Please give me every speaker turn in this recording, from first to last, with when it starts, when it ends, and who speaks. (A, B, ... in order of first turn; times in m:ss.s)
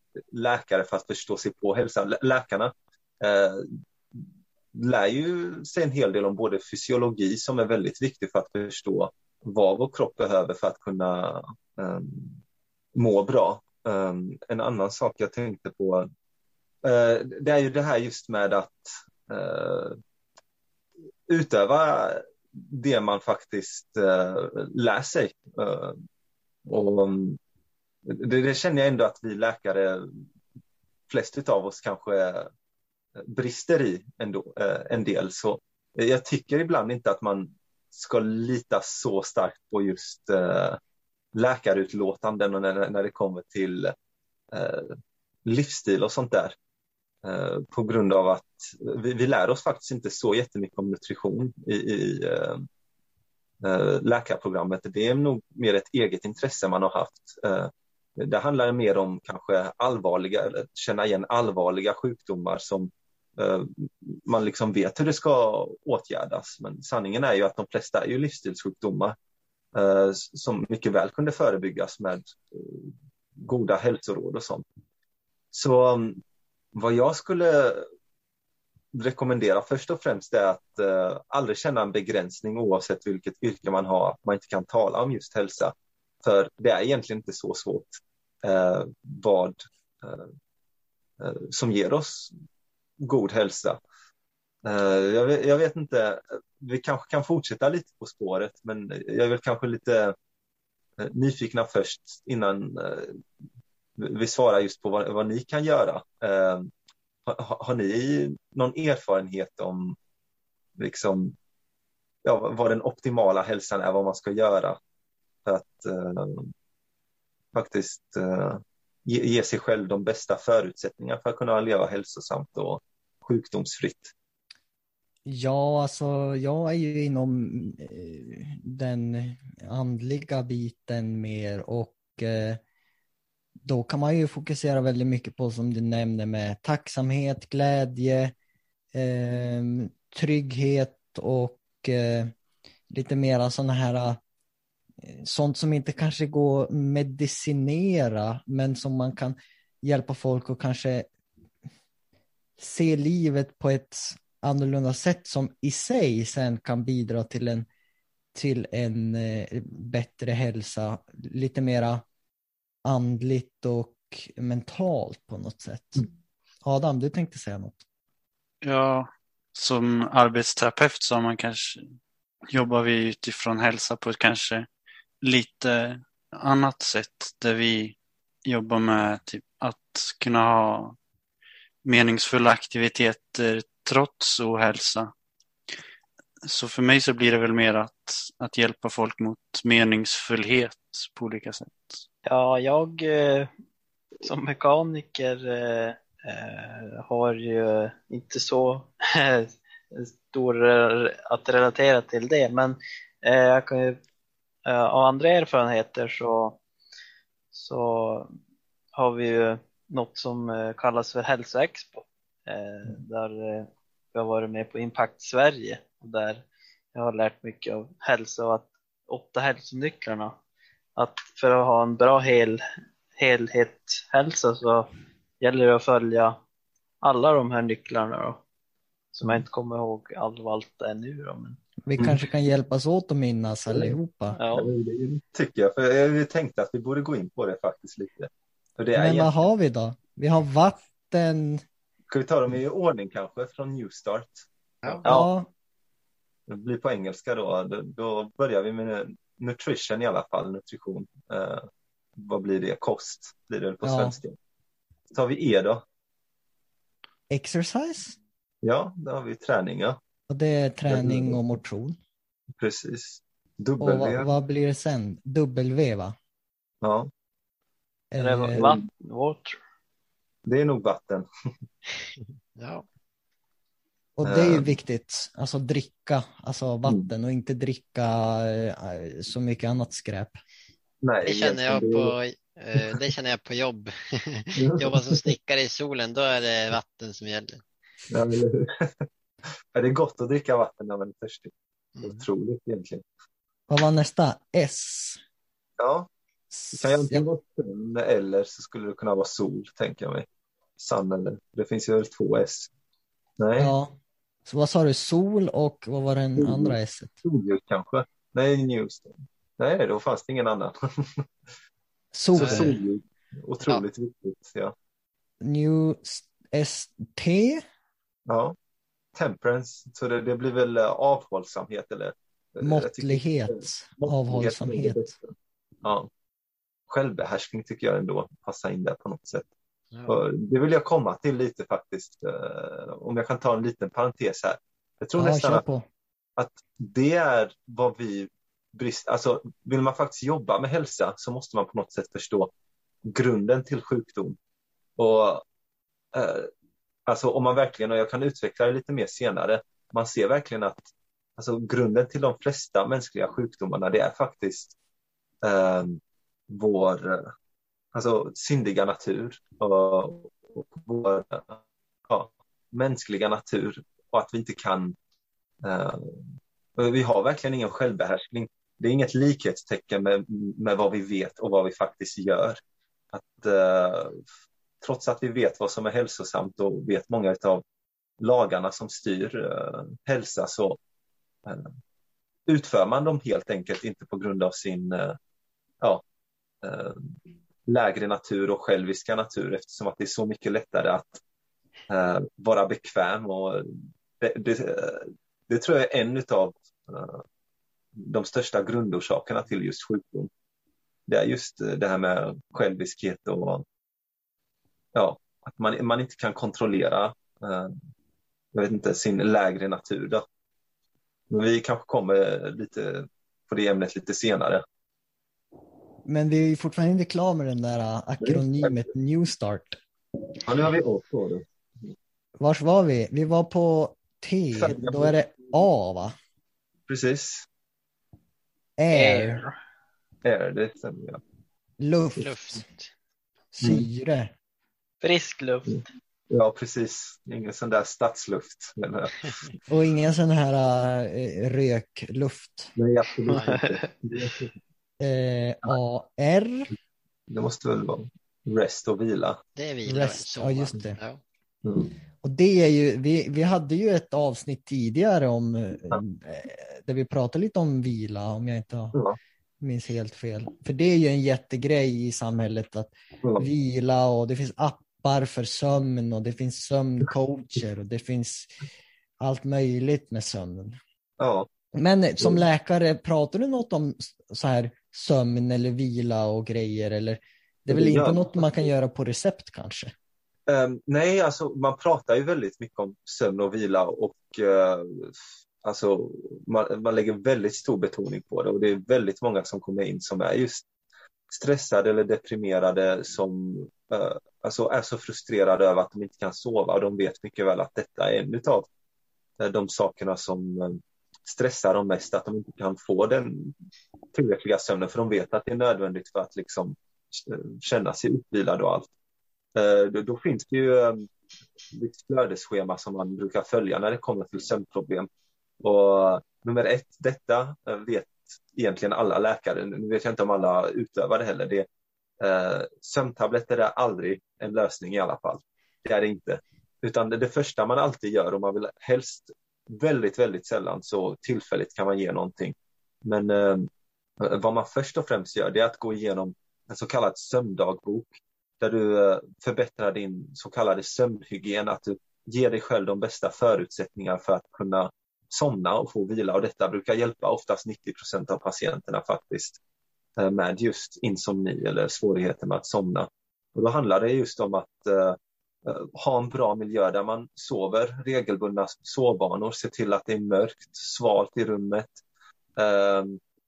0:00.3-0:12.4 A
0:12.9-0:16.1 A
0:16.8-0:20.0 A
0:21.3-0:26.0 A
0:26.7-0:27.4 A
0:28.0-0:30.2 A
0:31.1-0:32.5 A
0:33.2-0:40.8 A
0:41.3-0:43.9 A
0:44.5-0:46.6 A
0:47.2-0:52.7 A
0:53.6-1:09.2 A
1:09.7-1:14.6 A
1:15.5-1:16.2 A
1:16.7-1:17.9 A
1:18.9-1:30.3 A
1:31.2-1:32.3 A
1:33.0-1:33.8 A
1:34.6-1:40.1 A
1:41.0-1:43.2 A
1:44.0-1:46.7 A
1:47.2-1:50.0 A
1:50.8-1:51.3 A
1:52.2-1:54.8 A
1:55.4-1:56.5 A
1:57.5-2:04.1 A
2:05.2-2:12.6 B
2:13.6-2:18.3 B
2:18.9-2:22.3 B
2:22.9-2:24.2 B
2:25.0-2:31.1 B
2:32.6-2:37.7 B
2:38.3-2:42.0 B
2:42.8-2:46.0 B
2:46.6-2:47.8 B
2:48.6-2:51.8 C
2:52.5-2:54.7 C
2:55.2-3:01.0 C
3:01.8-3:05.1 C
3:06.4-3:12.0 C
3:12.2-3:13.5 D
3:14.2-3:24.0 D
3:24.6-3:26.6 D
3:27.5-3:28.3 D
3:28.9-3:40.4 D
3:41.0-3:42.6 D
3:43.1-3:44.9 D
3:45.4-3:46.4 D
3:47.0-3:48.4 D
3:49.1-3:51.6 D
3:51.8-3:54.4 B
3:53.7-3:54.0 A
3:54.4-3:54.7 D
3:54.5-3:59.5 A
3:59.0-4:01.6 B
4:02.1-4:05.3 A
4:05.0-4:05.5 B
4:06.5-4:14.4 A
4:13.8-4:14.2 B
4:15.1-4:15.8 A
4:17.3-4:18.2 B
4:18.6-4:20.0 A
4:20.3-4:22.0 B
4:20.9-4:21.4 A
4:22.5-4:24.3 A
4:23.8-4:26.2 B
4:26.8-4:27.1 A
4:28.1-4:28.8 B
4:28.2-4:29.6 D
4:30.4-4:31.3 A
4:32.6-4:32.8 E
4:34.2-4:40.4 B
4:34.2-4:34.7 A
4:36.8-4:37.1 A
4:41.0-4:42.2 A
4:41.2-4:47.6 E
4:44.6-4:45.2 A
4:48.1-4:49.0 A
4:49.7-4:53.0 A
4:52.0-4:52.3 E
4:53.7-4:55.2 B
4:55.8-4:56.1 A
4:56.5-4:57.2 B
4:56.7-5:00.2 A
5:00.8-5:02.7 A
5:03.4-5:03.7 A
5:03.6-5:03.9 B
5:04.4-5:07.2 B
5:06.4-5:11.3 A
5:12.1-5:12.8 B
5:12.3-5:14.7 A
5:15.4-5:17.6 B
5:18.3-5:18.5 A
5:19.1-5:26.1 A
5:22.6-5:25.1 B
5:26.9-5:29.5 A
5:30.1-5:35.6 A
5:35.2-5:35.9 B
5:36.4-5:42.5 A
5:43.0-5:44.4 A
5:45.0-5:45.4 A
5:46.1-5:46.5 A
5:47.1-5:54.8 A
5:55.4-5:57.3 A
5:57.9-6:05.0 A
6:05.6-6:12.6 A
6:13.1-6:14.2 A
6:14.8-6:17.6 A
6:18.2-6:20.8 A
6:21.4-6:21.7 A
6:22.5-6:25.2 A
6:26.6-6:27.1 A
6:27.6-6:31.2 A
6:31.9-6:33.7 A
6:34.2-6:37.2 A
6:38.0-6:40.3 A
6:41.1-6:43.6 A
6:44.9-6:47.8 A
6:48.5-6:50.2 A
6:51.3-6:54.6 A
6:56.0-6:59.8 B
6:58.2-6:58.9 A
7:00.4-7:01.9 A
7:02.4-7:06.1 B
7:04.5-7:05.3 A
7:06.9-7:07.5 A
7:08.8-7:09.4 B
7:08.9-7:09.5 D
7:10.2-7:11.2 A
7:11.8-7:12.6 B
7:12.2-7:12.9 E
7:13.5-7:14.3 B
7:15.0-7:15.9 D
7:16.3-7:19.4 A
7:19.7-7:22.7 B
7:22.8-7:24.5 A
7:23.3-7:23.6 E
7:23.3-7:23.8 D
7:25.0-7:26.7 B
7:27.3-7:29.4 A
7:29.6-7:31.2 E
7:29.8-7:31.0 B
7:31.6-7:31.9 A
7:32.2-7:39.0 B
7:39.6-7:48.5 B
7:43.2-7:43.5 A
7:49.2-7:50.8 B
7:51.2-7:51.5 A
7:51.7-7:59.9 B
7:57.7-7:58.7 A
8:00.5-8:10.6 A
8:11.3-8:18.7 A
8:19.4-8:23.5 A
8:24.1-8:28.9 A
8:29.5-8:31.1 A
8:31.7-8:35.1 A
8:35.6-8:41.7 A
8:42.2-9:09.6 A
9:10.2-9:22.0 A
9:22.6-9:23.2 A